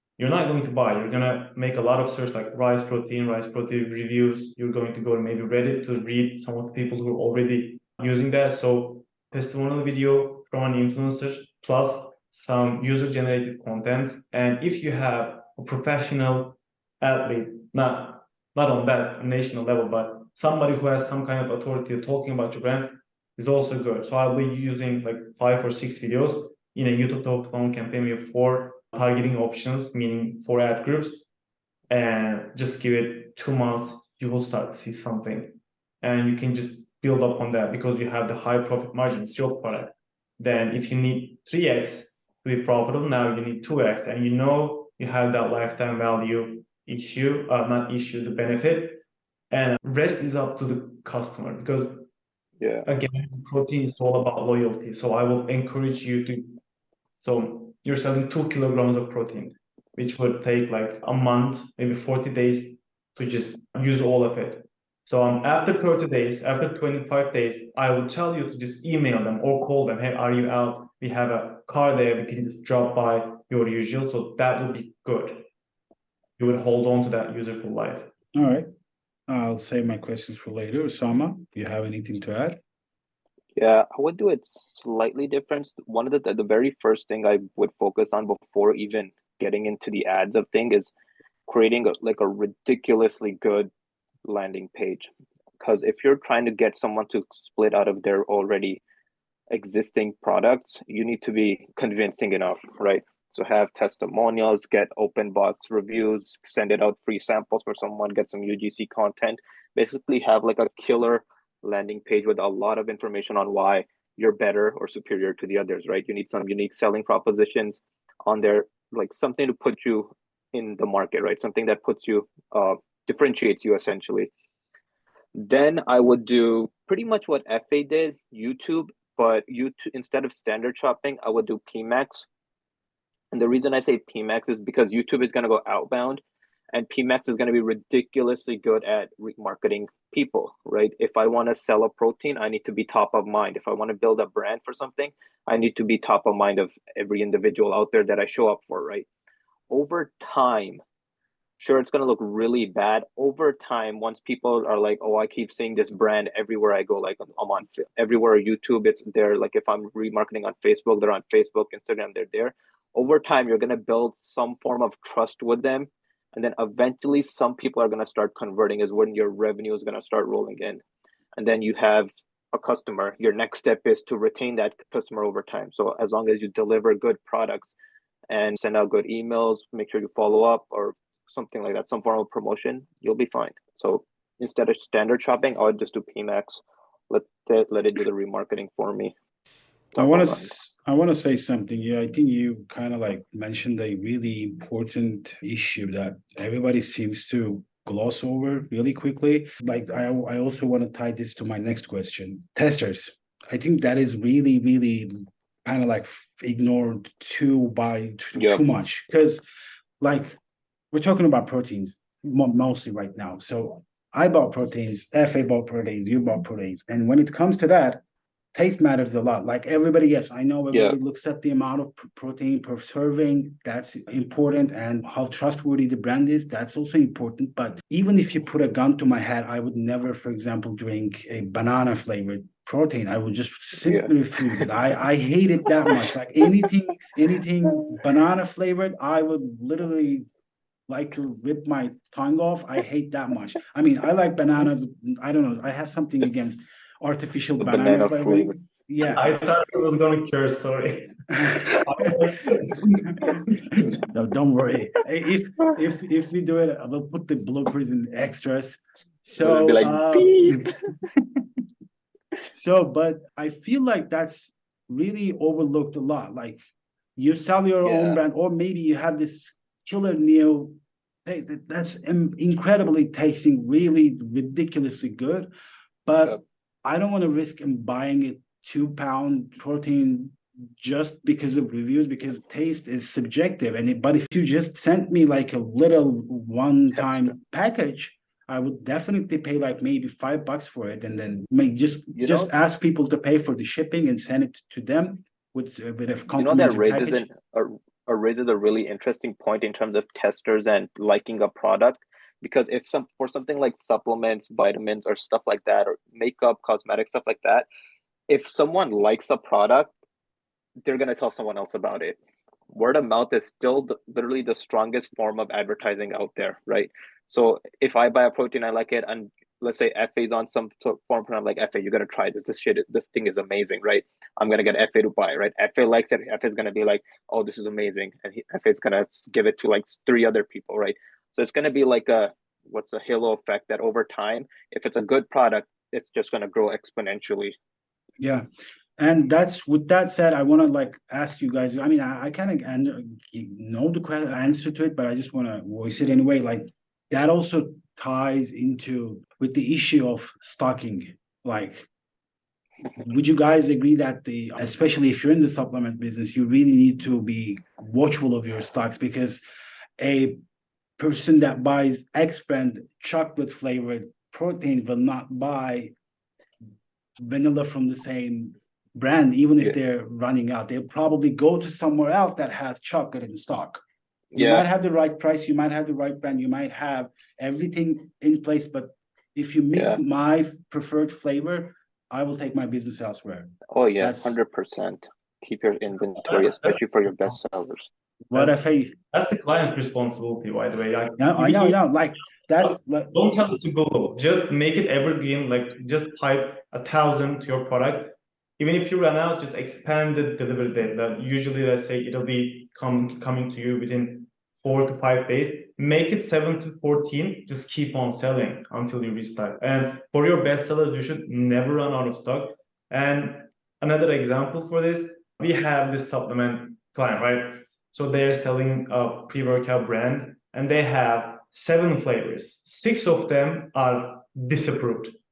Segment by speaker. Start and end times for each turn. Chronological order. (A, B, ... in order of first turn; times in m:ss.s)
0:00.2-0:31.2 A
0:31.9-0:52.0 A
0:52.6-0:52.9 B
0:52.8-0:56.6 A
0:57.2-1:15.5 A
1:16.4-1:18.1 A
1:18.3-1:18.7 C
1:19.3-1:22.6 C
1:23.5-1:30.9 B
1:31.5-1:33.7 B
1:34.2-1:35.1 B
1:35.6-1:38.8 B
1:39.5-2:04.3 B
2:05.4-2:12.3 B
2:13.3-2:16.2 B
2:16.7-2:29.1 B
2:29.7-2:30.8 B
2:31.6-2:50.8 B
2:51.4-2:57.7 B
2:58.3-3:09.1 B
3:09.9-3:10.5 B
3:09.9-3:29.4 C
3:28.4-3:28.6 B
3:30.0-3:30.4 C
3:30.9-3:38.0 C
3:38.5-4:00.2 C
3:53.9-3:54.6 B
4:00.9-4:09.4 C
4:07.6-4:08.5 B
4:09.1-4:14.0 A
4:14.0-4:21.4 C
4:19.4-4:20.7 B
4:22.5-4:35.5 C
4:27.8-4:28.2 B
4:36.0-4:57.3 C
4:46.9-4:47.3 B
4:52.1-4:52.5 B
4:56.4-5:07.7 B
5:08.3-5:09.9 B
5:10.8-5:12.2 B
5:12.7-5:37.6 B
5:38.2-5:38.4 C
5:39.0-5:51.9 C
5:53.0-5:59.4 C
6:00.0-6:00.4 C
6:01.0-6:05.9 C
6:07.2-6:13.8 C
6:14.3-6:14.6 B
6:14.3-6:24.4 C
6:19.7-6:20.0 B
6:23.7-6:27.9 B
6:26.2-6:27.3 A
6:28.3-6:28.9 C
6:28.3-6:31.8 A
6:31.2-6:33.1 C
6:32.6-7:05.1 A